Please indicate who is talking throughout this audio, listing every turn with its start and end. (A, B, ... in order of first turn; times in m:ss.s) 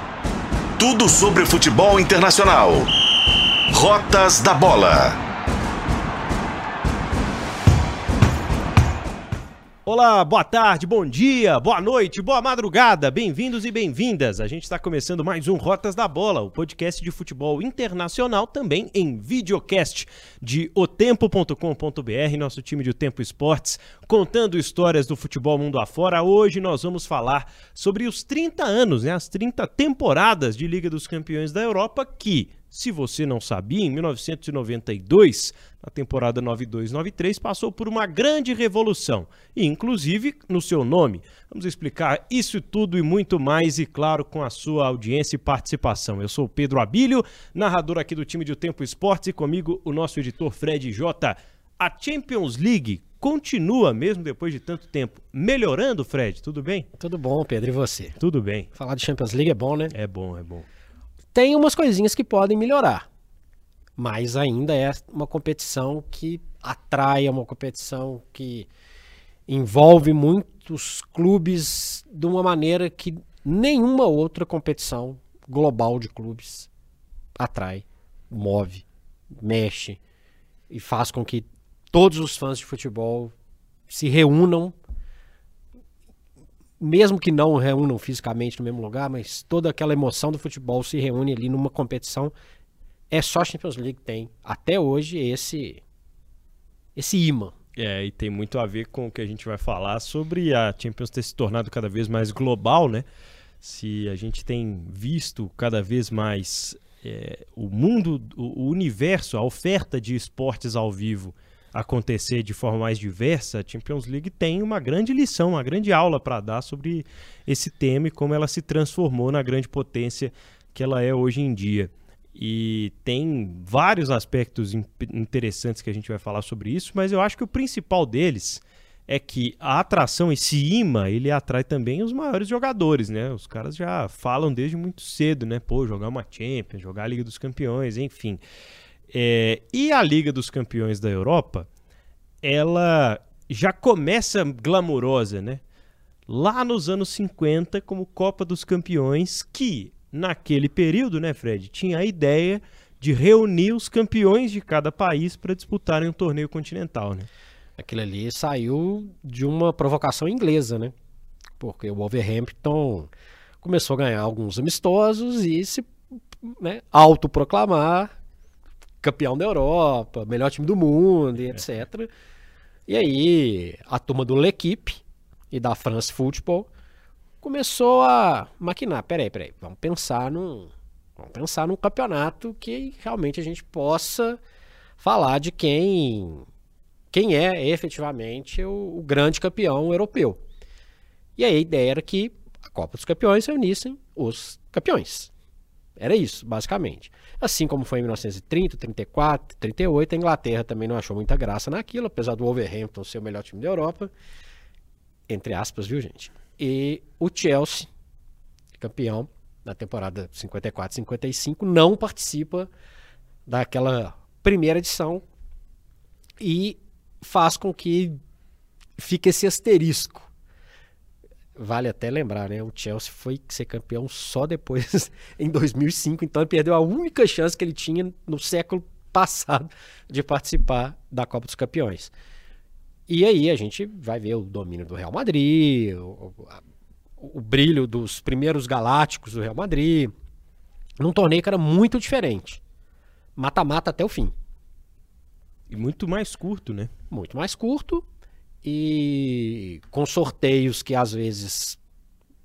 0:00.8-0:02.9 A
0:03.7-0:05.2 A
0:09.9-0:56.9 B
0:57.0-0:58.2 C
0:58.2-0:58.7 B
0:58.8-0:59.9 C
0:59.9-1:00.7 B
1:01.3-1:03.1 C
1:04.0-1:08.7 C
1:09.5-1:16.7 C
1:17.4-1:18.8 C
1:19.4-1:20.0 C
1:20.7-1:23.3 C
1:23.9-1:24.8 C
1:26.8-1:32.3 C
1:33.1-1:35.8 C
1:37.0-1:37.6 C
1:37.8-1:43.0 B
1:43.6-2:18.4 B
2:19.1-2:21.7 B
2:22.4-2:25.6 B
2:26.3-2:37.3 B
2:37.8-2:40.9 C
2:41.6-2:43.1 C
2:43.6-2:48.1 C
2:49.0-2:52.1 C
2:52.9-2:56.7 C
2:57.4-3:04.4 C
3:05.0-3:06.5 C
3:07.1-3:10.4 C
3:11.4-3:15.3 C
3:16.0-3:24.1 C
3:25.3-3:27.9 C
3:28.8-3:32.7 C
3:33.5-3:35.2 C
3:36.4-3:38.2 C
3:39.0-3:40.3 C
3:41.6-3:52.1 C
3:53.1-3:56.6 C
3:57.2-4:00.1 C
4:01.0-4:02.6 C
4:03.4-4:04.3 C
4:05.7-4:06.9 B
4:07.1-4:08.0 C
4:08.6-4:11.8 C